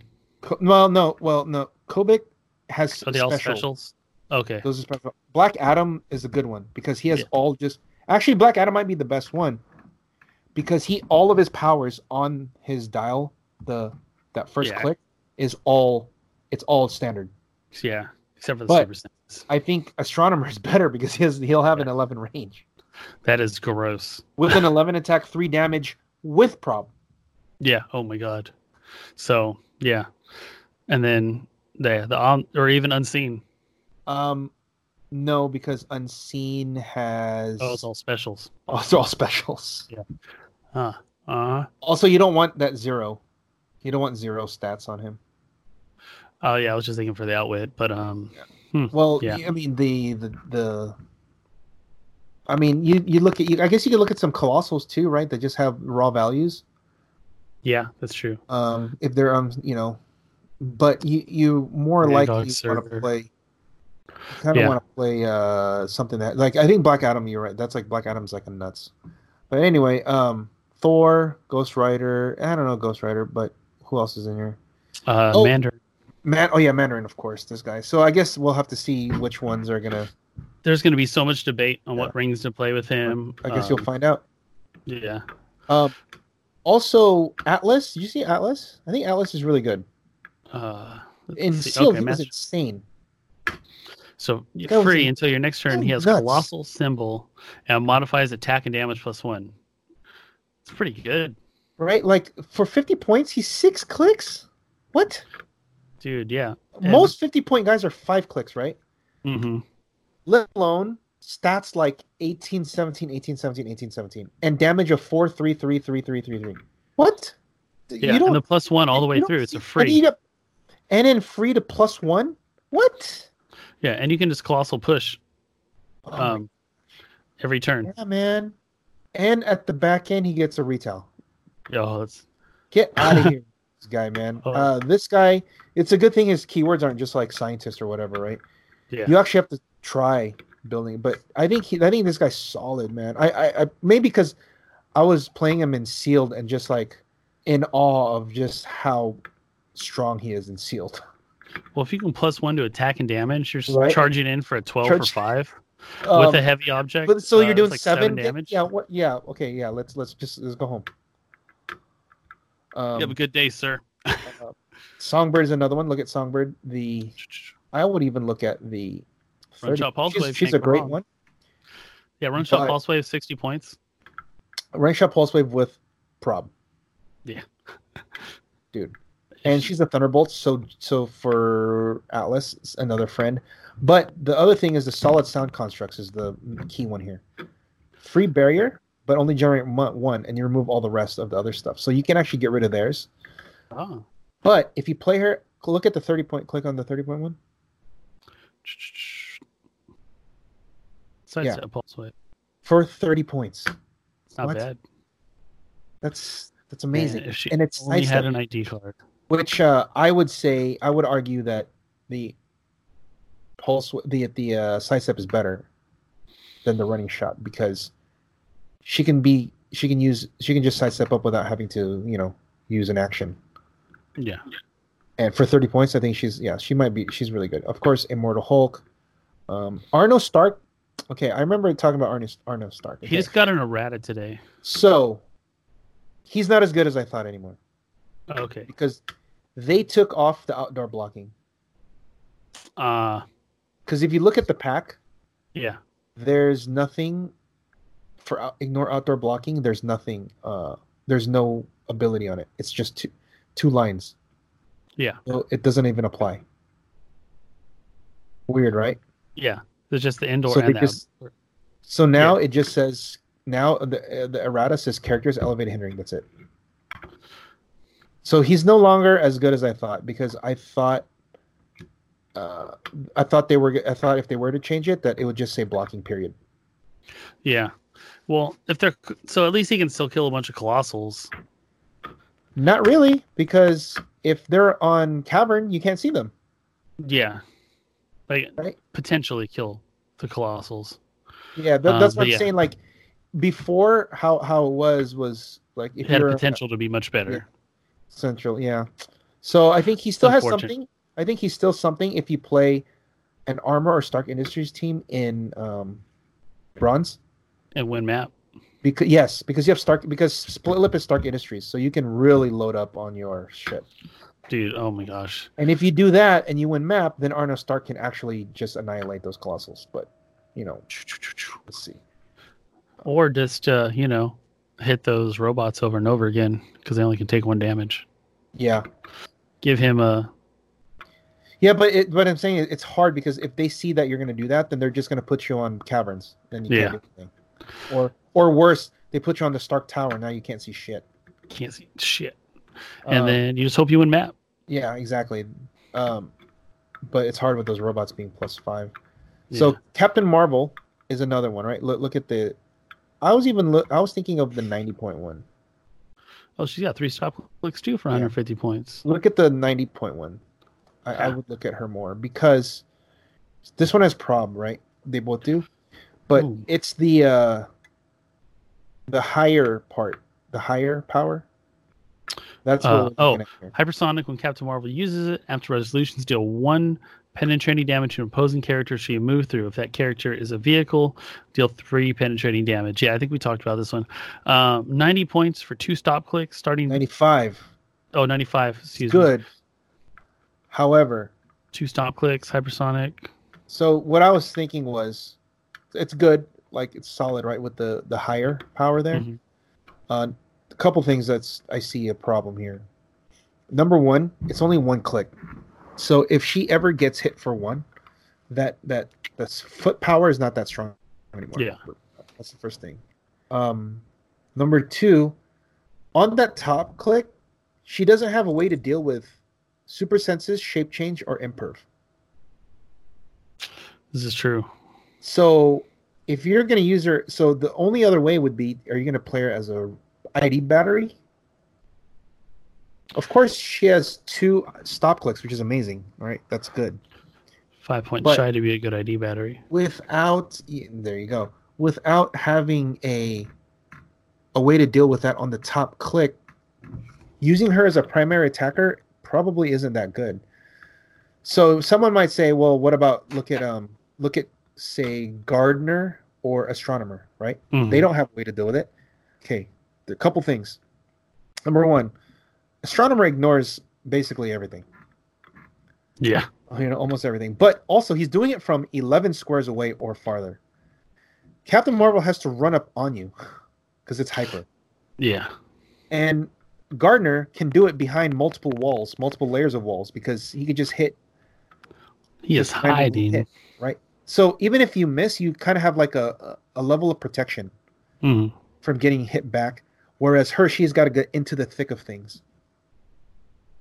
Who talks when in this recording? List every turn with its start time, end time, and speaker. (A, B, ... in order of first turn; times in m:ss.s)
0:00.4-0:03.6 A
0:03.0-0:04.7 B
0:04.6-0:09.6 A
0:10.6-0:17.3 A
0:14.6-0:14.9 B
0:17.7-0:19.5 B
0:19.5-0:22.6 A
0:23.2-0:24.4 B
0:24.4-0:26.9 A
0:27.6-0:28.5 B
0:29.2-0:30.1 B
0:30.9-0:33.4 B
0:34.1-0:34.5 A
0:35.1-0:37.8 A
0:37.6-0:38.5 B
0:38.7-0:39.9 A
0:40.7-0:41.7 B
0:41.8-0:43.2 A
0:43.8-0:45.2 A
0:46.4-0:49.4 B
0:48.9-0:51.0 A
0:52.5-0:56.6 A
0:57.6-0:58.4 B
0:58.5-1:00.0 A
1:00.6-1:03.3 A
1:02.0-1:03.1 B
1:04.3-1:08.9 A
1:04.5-1:04.8 B
1:09.5-1:14.6 A
1:15.1-1:15.8 B
1:16.2-1:20.1 A
1:20.6-1:23.9 B
1:23.1-1:24.2 A
1:24.9-1:25.2 B
1:25.7-1:25.9 A
1:26.6-1:29.8 A
1:30.5-1:32.3 B
1:31.4-1:32.8 A
1:34.2-1:39.5 B
1:34.7-1:35.1 A
1:35.7-1:36.5 A
1:40.6-1:41.4 B
1:41.8-1:45.2 A
1:46.0-1:47.1 B
1:46.8-1:48.8 A
1:49.2-1:49.6 B
1:50.3-1:57.4 A
1:57.9-1:58.4 A
1:58.0-2:00.0 B
1:58.9-2:00.2 A
2:00.9-2:03.3 A
2:03.8-2:05.2 B
2:06.1-2:06.4 A
2:06.2-2:06.5 B
2:07.4-2:07.9 B
2:07.9-2:08.6 A
2:09.1-2:11.1 A
2:11.7-2:12.3 B
2:12.7-2:18.4 A
2:13.0-2:13.3 B
2:14.4-2:14.7 B
2:18.9-2:19.2 B
2:19.1-2:24.4 A
2:25.0-2:29.2 A
2:29.8-2:31.0 A
2:31.8-2:38.6 B
2:33.7-2:34.0 A
2:34.8-2:35.2 A
2:36.0-2:36.5 A
2:37.0-2:40.9 A
2:42.7-2:43.2 A
2:43.0-2:44.4 B
2:44.3-2:47.2 A
2:47.3-2:47.5 B
2:47.7-2:49.1 A
2:49.6-2:51.0 A
2:49.6-2:51.0 B
2:52.2-2:53.8 B
2:52.4-2:52.8 A
2:54.7-2:56.5 A
2:58.7-3:07.2 A
2:59.4-2:59.7 B
3:08.0-3:13.1 A
3:13.7-3:14.0 B
3:14.4-3:17.4 A
3:18.6-3:19.4 B
3:21.3-3:22.1 B
3:22.6-3:23.7 A
3:24.3-3:24.8 B
3:26.0-3:28.3 A
3:26.9-3:29.0 B
3:29.3-3:32.4 A
3:33.6-3:35.7 A
3:36.6-3:37.9 A
3:38.8-3:43.4 A
3:44.2-3:44.4 B
3:45.2-3:48.8 A
3:49.5-3:53.3 A
3:53.0-3:54.4 B
3:54.6-3:55.2 A
3:56.3-3:57.6 A
3:58.3-3:58.7 B
3:58.7-3:59.0 A
3:59.6-4:01.3 A
4:02.8-4:03.2 B
4:03.9-4:05.0 A
4:06.2-4:07.3 A
4:08.2-4:14.2 A
4:15.3-4:16.4 A
4:18.5-4:19.0 A
4:19.4-4:21.3 B
4:20.5-4:21.0 A
4:21.9-4:26.3 A
4:28.2-4:31.1 A
4:32.4-4:36.4 A
4:37.4-4:37.7 B
4:38.3-4:41.3 B
4:42.6-4:46.3 A
4:47.0-4:47.4 B
4:48.3-4:51.0 B
4:51.6-4:52.8 A
4:51.8-4:52.5 B
4:53.3-4:56.6 A
4:56.0-4:57.5 B
4:58.1-4:58.9 A
4:59.4-5:02.8 A
5:00.2-5:00.7 B
5:03.5-5:06.0 A
5:06.8-5:07.2 A
5:07.8-5:08.3 B
5:08.8-5:13.9 A
5:14.5-5:15.5 B
5:15.6-5:20.8 A
5:21.0-5:21.5 B
5:21.7-5:22.0 A
5:23.0-5:28.0 B
5:28.6-5:28.8 A
5:29.6-5:30.3 B
5:31.6-5:37.3 A
5:36.7-5:37.0 B
5:37.9-5:41.0 A
5:41.5-5:42.4 B
5:43.0-5:44.3 B
5:43.1-5:43.4 A
5:44.7-5:46.3 A
5:47.1-5:48.9 A
5:49.5-5:49.8 B
5:49.5-5:52.6 A
5:53.2-5:55.4 A
5:56.6-5:59.0 B
5:59.0-6:00.4 A
6:01.0-6:02.8 A
6:03.7-6:05.7 A
6:06.3-6:07.7 A
6:06.4-6:06.6 B
6:09.1-6:11.5 A
6:12.6-6:13.7 A
6:12.8-6:27.0 B
6:26.9-6:27.6 A
6:28.1-6:29.3 B
6:29.0-6:29.4 A
6:30.7-6:31.3 A
6:31.7-6:33.3 B
6:33.7-6:35.4 A
6:35.9-6:39.3 A
6:39.1-6:39.4 B
6:40.1-6:42.8 A
6:43.7-6:45.3 A
6:46.0-6:47.8 A
6:48.5-6:54.0 A
6:54.6-6:55.4 A
6:56.1-6:57.3 A
6:57.9-6:59.4 A
6:59.9-7:01.8 A
7:04.1-7:04.7 B
7:05.2-7:11.2 A
7:13.2-7:17.0 A
7:17.8-7:19.6 B
7:19.7-7:23.5 A
7:24.5-7:26.4 A
7:27.4-7:30.4 A
7:31.4-7:38.9 A
7:37.7-7:38.1 B
7:39.4-7:40.8 A
7:41.7-7:42.1 A
7:42.8-7:44.9 A
7:46.2-7:46.5 B
7:46.7-7:50.6 A
7:51.7-7:53.3 A
7:54.1-7:54.7 A
7:55.2-7:55.5 B
7:56.1-8:01.2 A
8:02.4-8:03.4 B
8:02.6-8:07.7 A
8:08.2-8:08.5 B
8:08.8-8:12.4 A